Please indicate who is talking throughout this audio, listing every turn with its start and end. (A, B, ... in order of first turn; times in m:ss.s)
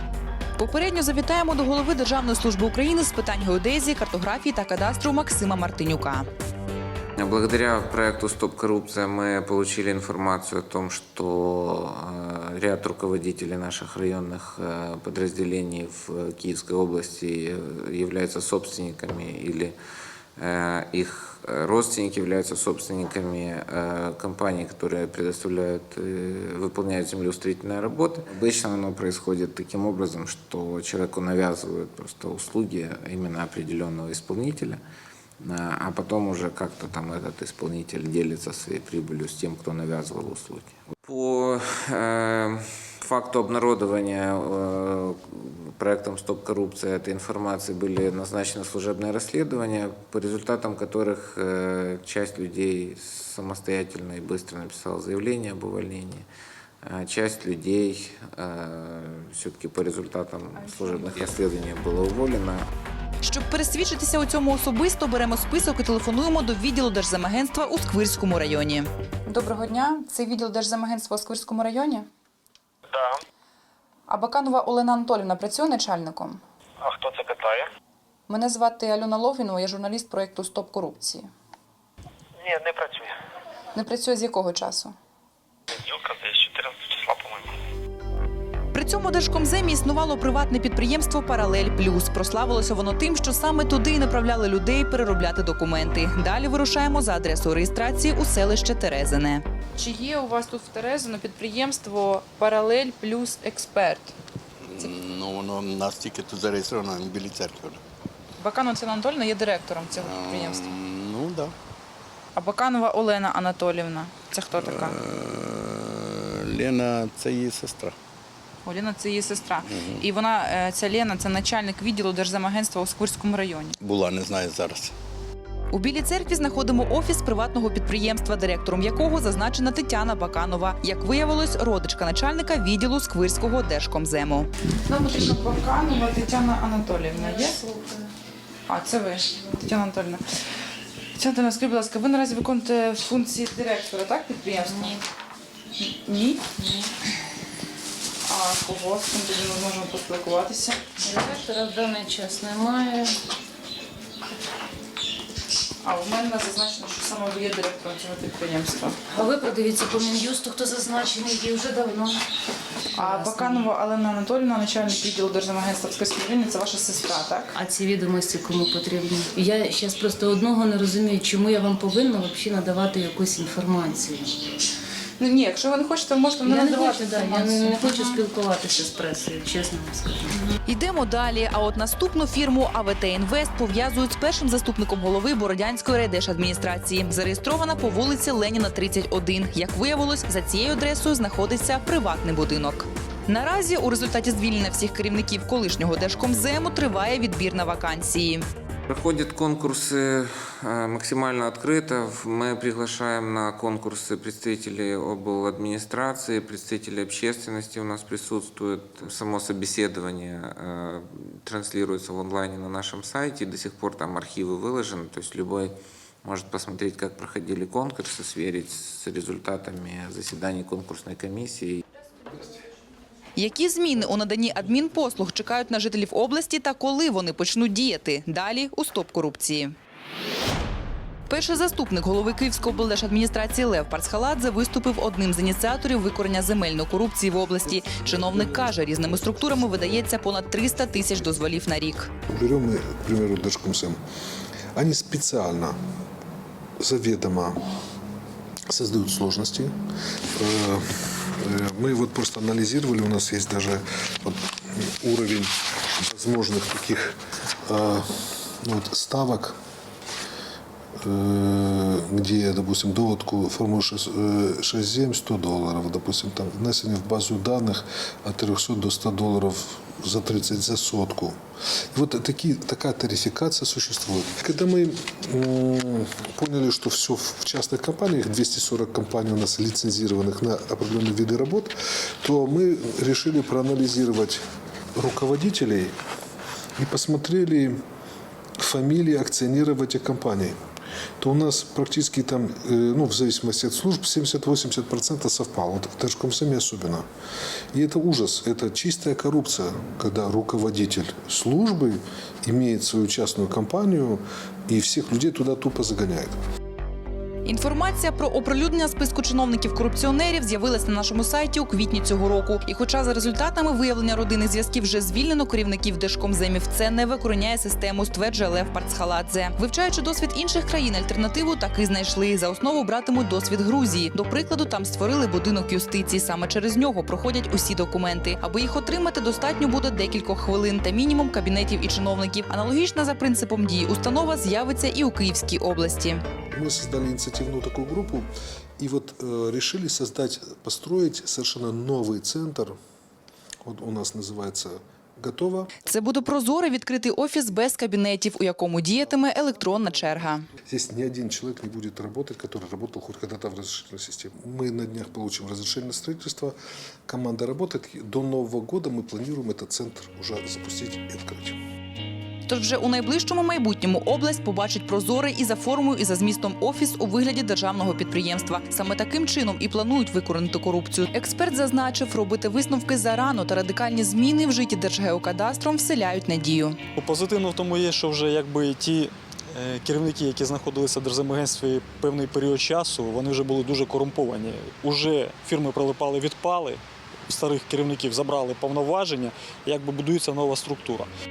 0:00.6-0:06.3 A
0:07.2-0:19.7 B
0:20.4-0:34.8 B
0:35.4-0:56.3 B
0:56.8-1:02.6 B
1:00.6-1:01.3 A
1:03.2-1:12.1 A
1:12.9-1:13.2 C
1:14.1-1:16.4 A
1:16.8-1:17.7 C
1:18.3-1:21.3 A
1:22.4-1:23.1 C
1:23.7-1:24.9 A
1:25.7-1:27.6 C
1:28.7-1:44.1 A
1:44.6-1:47.8 D
1:48.4-1:50.7 A
1:49.9-1:51.5 D
1:52.3-1:55.0 A
1:54.6-1:57.9 D
1:58.6-2:03.7 A
1:59.7-2:00.0 D
2:03.8-2:04.9 D
2:05.7-2:17.6 A
2:17.2-2:18.1 E
2:18.7-2:20.2 A
2:21.1-2:25.0 A
2:24.6-2:25.0 E
2:25.8-2:26.5 A
2:26.6-2:26.9 E
2:28.2-2:31.0 A
2:31.0-2:33.2 E
2:35.8-2:39.0 A
2:39.1-2:42.2 E
2:42.9-2:43.7 E
2:43.0-2:47.6 A
2:47.5-2:54.3 E
2:55.2-2:58.2 A
2:56.4-3:00.3 E
3:00.6-3:18.4 A
3:18.9-3:41.8 B
3:43.4-3:49.7 A
3:51.3-4:02.1 A
4:02.3-4:04.0 F
4:04.7-4:05.8 F
4:06.8-4:07.6 F
4:08.7-4:09.8 F
4:10.4-4:19.5 F
4:21.0-4:31.4 F
4:31.9-4:44.4 F
4:45.0-4:45.9 F
4:46.8-4:47.8 F
4:48.6-4:50.6 F
4:51.2-4:57.0 F
4:57.7-5:06.4 F
5:07.4-5:36.2 A
5:36.5-5:38.3 F
5:38.8-5:42.8 F
5:43.6-5:45.7 F
5:45.8-5:50.4 A
5:50.7-5:56.6 F
5:57.1-6:01.6 F
6:02.5-6:16.8 A
6:17.0-6:31.1 G